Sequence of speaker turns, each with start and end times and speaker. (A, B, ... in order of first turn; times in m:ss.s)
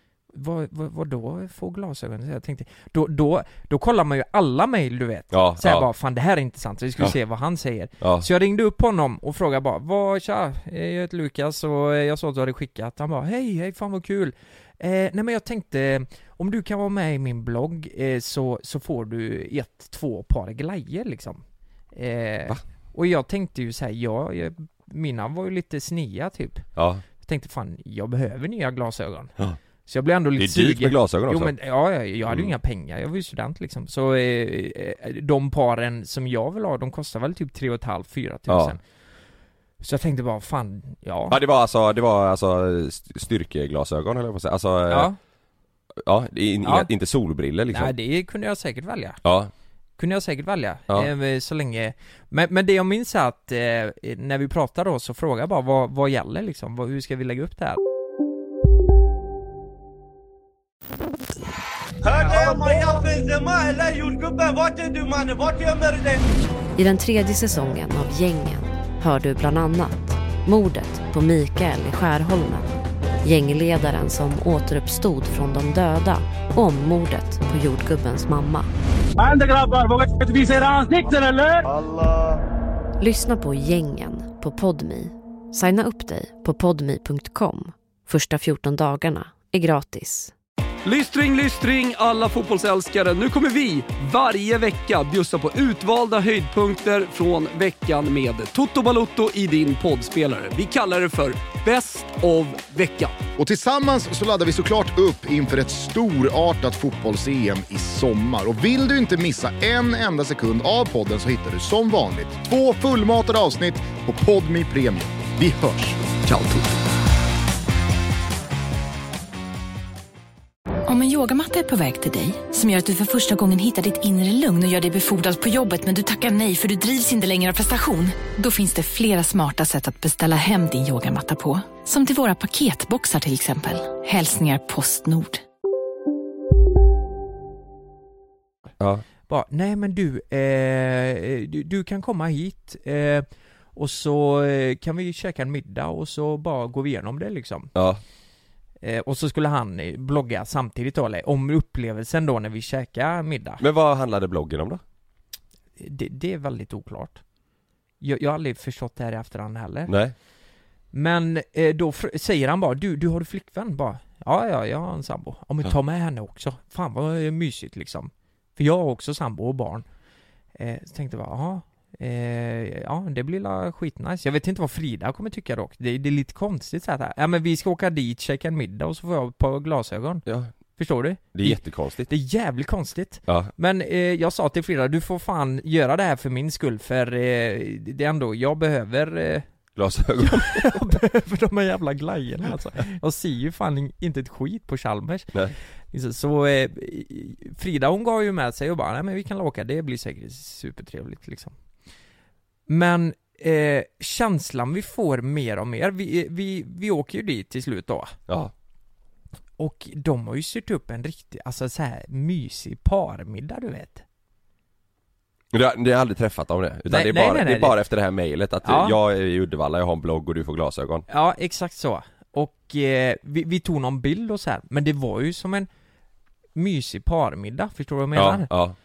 0:00.3-0:26.6 A
0:05.3-0:05.9 B
0:08.0-0:08.3 B
0:26.8-0:27.0 B
0:27.2-0:29.3 A
0:29.8-0:38.8 A
0:30.4-0:31.5 B
0:38.5-0:38.8 B
0:39.8-0:41.4 A
0:41.3-0:45.1 B
0:44.9-0:45.2 A
0:46.0-0:47.9 B
0:46.6-0:46.9 A
0:47.7-0:49.2 A
0:49.2-0:49.5 B
0:50.0-0:57.8 A
1:02.0-1:06.2 C
1:06.8-1:12.7 D
1:13.2-1:18.7 D
1:19.2-1:21.6 C
1:23.0-1:30.3 D
1:30.8-1:43.2 E
1:43.4-1:56.0 F
1:56.3-1:56.6 B
2:00.8-2:15.4 G
2:19.3-2:27.7 A
2:27.7-2:28.0 B
2:28.8-2:33.6 A
2:33.6-2:34.8 B
2:35.8-2:37.2 A
2:38.0-2:39.9 A
2:39.9-2:40.1 B
2:40.9-2:49.8 A
2:50.6-3:00.2 A
3:00.2-3:00.5 B
3:00.8-3:09.4 A
3:01.3-3:02.1 B
3:09.8-3:10.8 B
3:10.2-3:15.3 A
3:15.9-3:21.5 A
3:22.7-3:28.1 A
3:29.6-3:34.0 A
3:35.5-3:41.0 B
3:36.9-3:37.8 A
3:38.6-3:39.0 A
3:41.1-3:45.7 A
3:46.5-3:48.5 A
3:48.1-3:48.8 B